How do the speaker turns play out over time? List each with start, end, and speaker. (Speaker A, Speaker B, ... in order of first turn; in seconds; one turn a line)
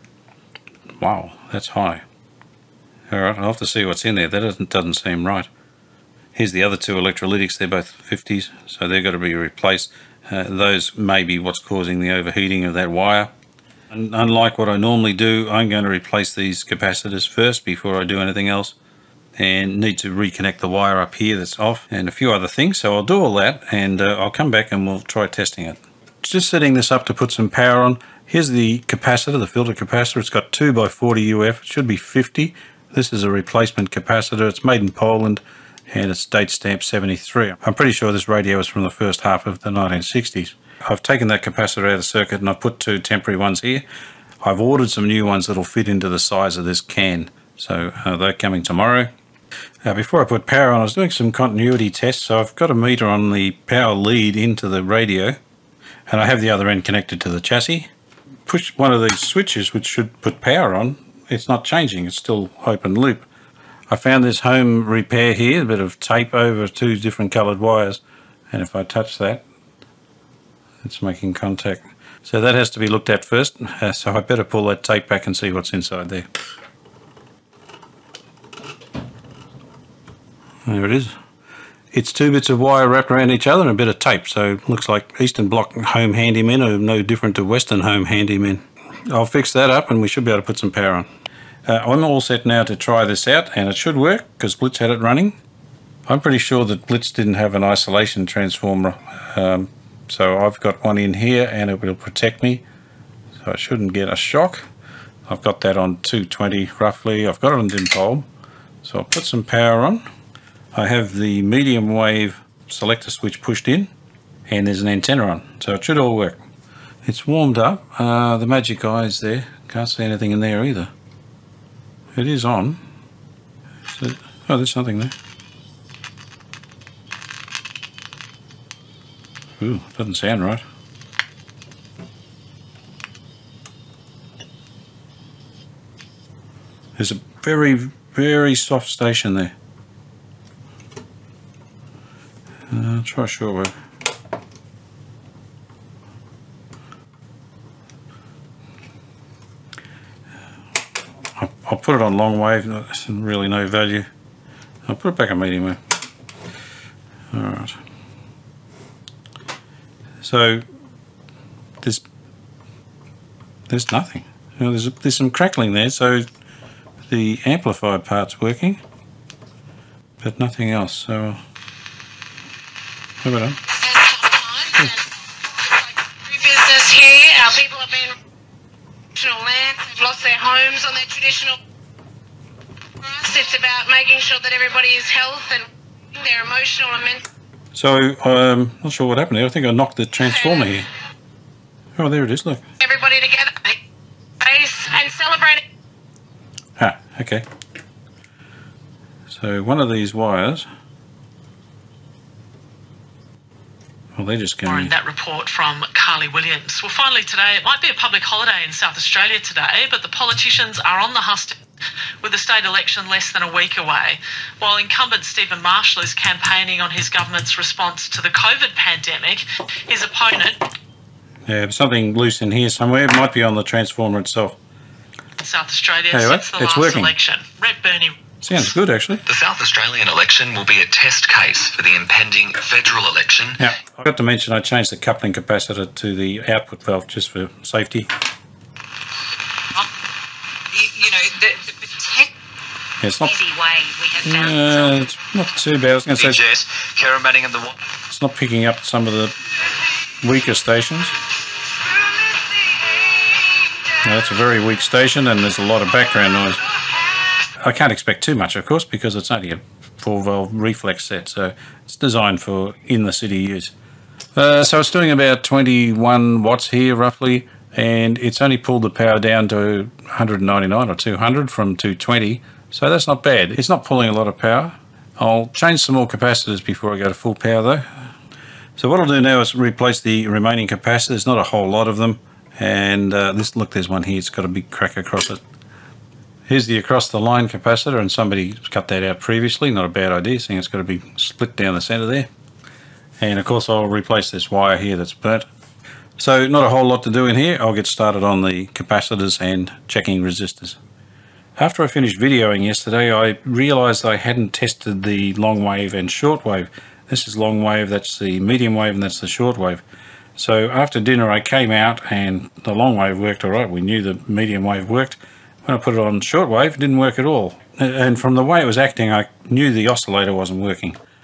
Speaker A: 1.0-2.0
Speaker A: 3.1-5.5
Speaker A: 6.3-13.3
Speaker A: 13.9-18.8
Speaker A: 19.4-43.9
Speaker A: 44.4-49.1
Speaker A: 49.9-55.4
Speaker A: 56.1-57.9
Speaker A: 58.5-63.2
Speaker A: 63.9-68.0
Speaker A: 68.5-69.4
Speaker A: 70.8-76.3
Speaker A: 80.7-81.1
Speaker A: 81.9-91.1
Speaker A: 91.7-95.4
Speaker A: 96.1-102.6
Speaker A: 103.4-104.7
Speaker A: 105.3-108.3
Speaker A: 108.8-110.0
Speaker A: 110.7-113.9
Speaker A: 114.5-116.4
Speaker A: 117.0-120.9
Speaker A: 122.2-122.8
Speaker A: 123.9-125.2
Speaker A: 129.6-130.6
Speaker A: 137.0-139.5
Speaker A: 142.7-143.7
Speaker A: 151.4-154.1
Speaker A: 154.9-155.8
Speaker A: 157.3-157.8
Speaker A: 160.2-160.6
Speaker A: 163.7-166.3
Speaker A: 167.1-168.8
Speaker A: 170.2-171.4
Speaker A: 173.2-173.6
Speaker B: 173.7-178.2
Speaker B: 179.2-181.6
Speaker B: 183.0-187.2
Speaker A: 187.8-190.9
Speaker A: 192.0-192.7
Speaker B: 192.8-193.8
Speaker B: 194.4-195.6
Speaker A: 196.8-197.4
Speaker A: 199.3-200.7
Speaker A: 204.2-204.9
Speaker C: 204.7-211.6
Speaker C: 212.2-220.6
Speaker A: 221.5-224.6
Speaker C: 225.4-228.2
Speaker A: 226.1-227.1
Speaker A: 228.4-229.2
Speaker D: 229.3-233.6
Speaker A: 233.6-238.1
Speaker E: 240.7-242.3
Speaker A: 243.0-243.3
Speaker E: 243.2-245.1
Speaker A: 244.2-246.4
Speaker D: 246.2-247.8
Speaker A: 248.1-249.3
Speaker A: 250.2-251.2
Speaker A: 254.0-256.6
Speaker A: 257.6-263.7
Speaker A: 264.4-278.1
Speaker A: 278.8-285.4
Speaker A: 286.5-292.3
Speaker A: 293.2-295.5
Speaker A: 296.2-300.8
Speaker A: 301.6-309.8
Speaker A: 310.4-321.0